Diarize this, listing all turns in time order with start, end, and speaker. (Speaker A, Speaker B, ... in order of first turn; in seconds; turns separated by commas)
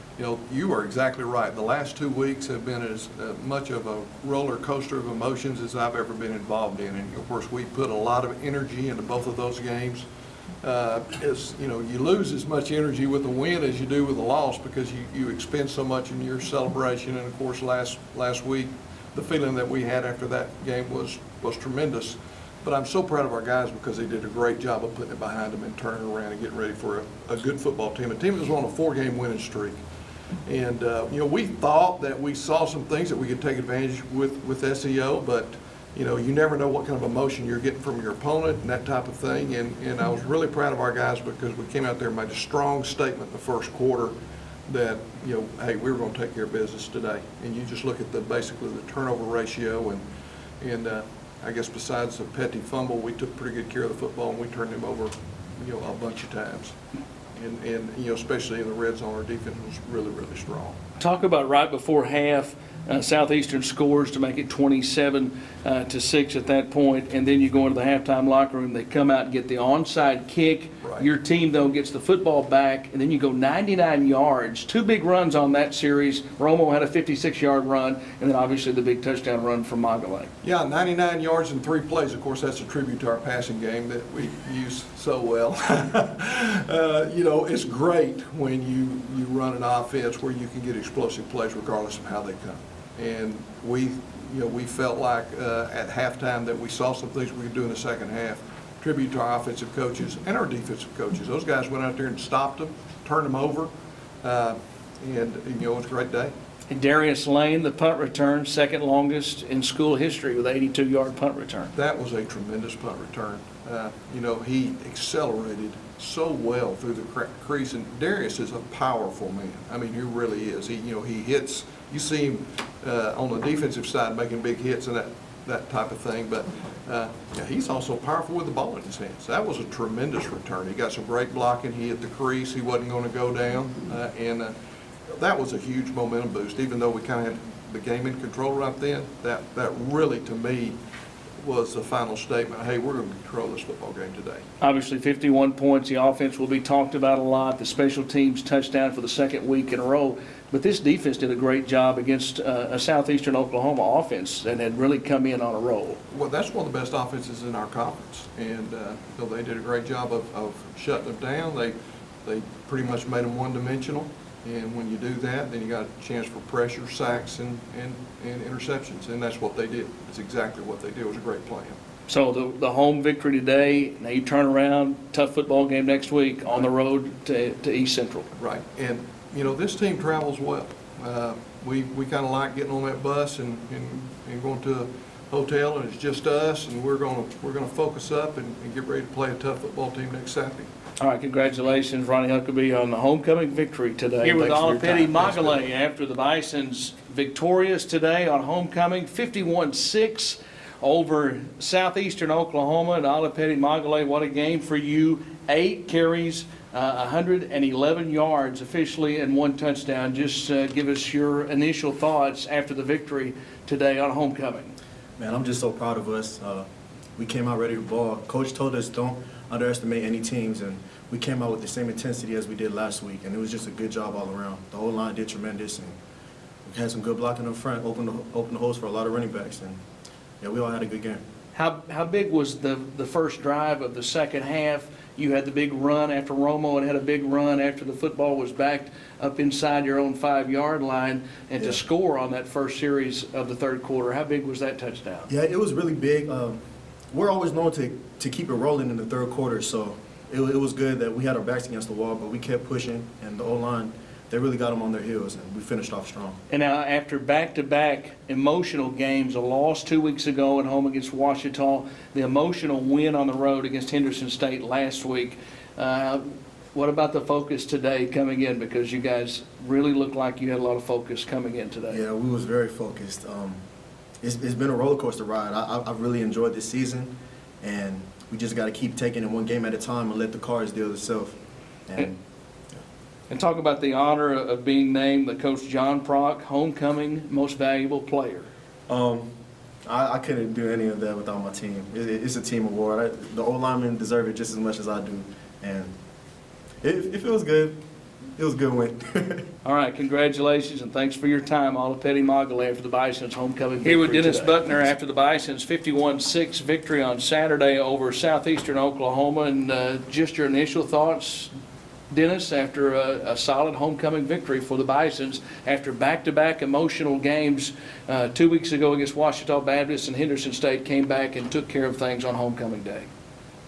Speaker A: 0.2-10.1, Speaker A: 10.6-29.8, Speaker A: 30.5-44.1, Speaker A: 44.7-50.0, Speaker A: 50.6-56.8, Speaker A: 57.4-60.8, Speaker B: 61.0-80.3, Speaker A: 80.4-103.7, Speaker A: 104.2-106.3, Speaker B: 106.7-111.7, Speaker A: 111.8-134.5, Speaker A: 135.1-140.8, Speaker A: 141.4-144.4, Speaker B: 144.6-156.0, Speaker A: 156.1-171.8, Speaker B: 172.1-178.3, Speaker A: 178.4-190.7, Speaker B: 191.0-214.8, Speaker A: 194.2-195.6, Speaker C: 215.2-226.0, Speaker C: 226.7-229.8, Speaker C: 230.4-231.2, Speaker B: 231.5-245.3, Speaker C: 245.3-246.6, Speaker C: 247.1-256.4, Speaker B: 256.5-272.0, Speaker C: 271.9-273.6, Speaker C: 274.2-277.1, Speaker C: 277.6-281.4, Speaker C: 281.9-282.2, Speaker B: 283.3-288.5, Speaker C: 288.9-289.3, Speaker C: 289.9-295.9, Speaker C: 296.8-297.8, Speaker C: 298.4-299.5, Speaker B: 299.6-311.5, Speaker B: 312.1-323.1